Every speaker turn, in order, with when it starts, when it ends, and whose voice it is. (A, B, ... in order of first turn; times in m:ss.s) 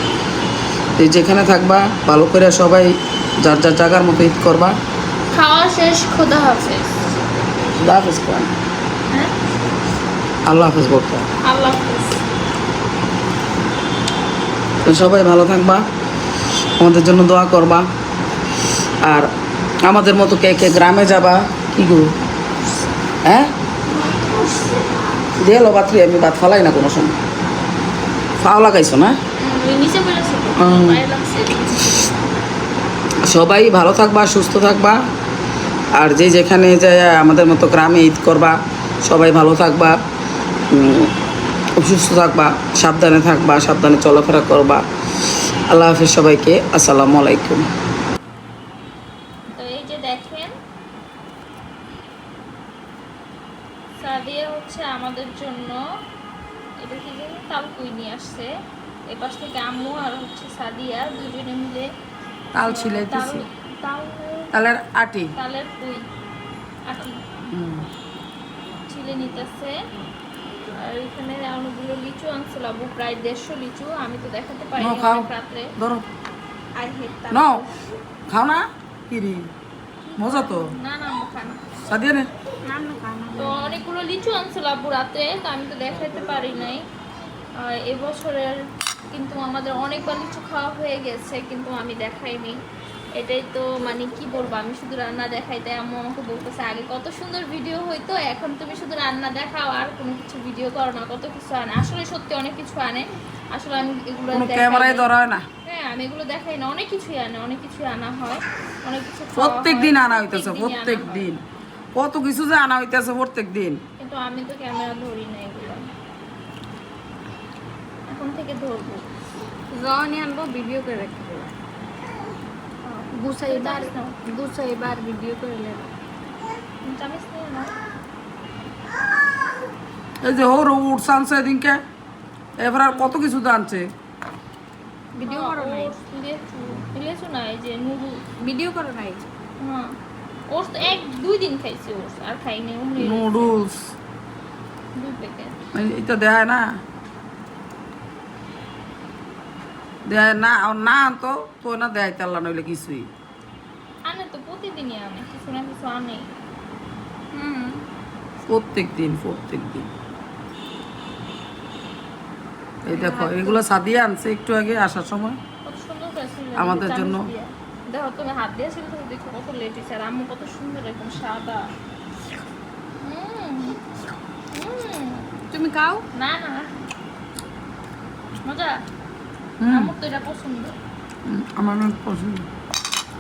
0:01.0-0:04.8 A
0:05.3-0:07.1 B
0:07.8-0:08.5 A
0:10.5-0:11.3 A
0:11.4-0:12.2 B
0:14.8-0:15.8 A
0:16.8-0:17.9 A
0:19.0-0:19.3 A
0:19.8-0:22.1 A
0:23.2-0:23.5 A
0:24.0-0:24.8 B
0:25.4-0:27.2 A
0:28.4-0:29.2 A
0:29.4-0:32.2 B
0:30.6-0:31.0 A
0:33.2-0:35.0 A
0:36.0-0:40.0 A
0:40.7-0:41.1 A
0:41.8-0:44.8 A
0:45.7-0:47.7 A
0:49.5-0:50.6 B
0:54.0-0:56.0 B
0:56.8-0:58.5 B
0:59.1-1:01.9 B
1:02.5-1:03.5 A
1:02.6-1:04.5 B
1:04.5-1:05.3 A
1:05.4-1:06.1 B
1:06.9-1:07.2 B
1:07.5-1:07.9 A
1:08.9-1:09.8 B
1:10.7-1:15.8 B
1:14.8-1:16.1 A
1:16.8-1:17.8 B
1:17.3-1:17.6 A
1:18.3-1:19.5 A
1:20.1-1:21.8 B
1:20.2-1:20.7 A
1:21.8-1:22.3 A
1:22.7-1:23.8 C
1:23.4-1:26.8 B
1:27.6-1:32.6 B
1:33.2-1:45.1 B
1:44.3-1:45.5 A
1:45.6-1:51.4 B
1:49.4-1:51.4 A
1:52.0-1:53.8 A
1:54.0-1:55.9 B
1:58.1-1:59.0 B
1:59.7-2:01.5 C
2:02.8-2:04.2 B
2:03.2-2:05.9 C
2:06.8-2:07.7 B
2:10.2-2:11.8 A
2:12.6-2:13.9 A
2:15.2-2:16.0 C
2:15.2-2:18.2 B
2:18.4-2:19.3 C
2:19.6-2:20.0 B
2:20.5-2:23.6 B
2:23.0-2:23.9 A
2:25.0-2:25.6 B
2:25.7-2:26.8 A
2:30.1-2:33.1 A
2:34.0-2:36.3 B
2:37.3-2:37.8 C
2:38.5-2:39.9 A
2:42.8-2:45.4 A
2:42.9-2:43.6 C
2:45.6-2:51.7 B
2:46.6-2:47.3 A
2:53.0-2:53.8 B
2:54.5-2:55.3 B
2:55.5-2:56.1 C
2:56.1-2:56.8 B
2:58.4-2:58.8 B
2:59.6-2:59.9 A
2:59.7-3:00.7 B
3:01.3-3:02.5 A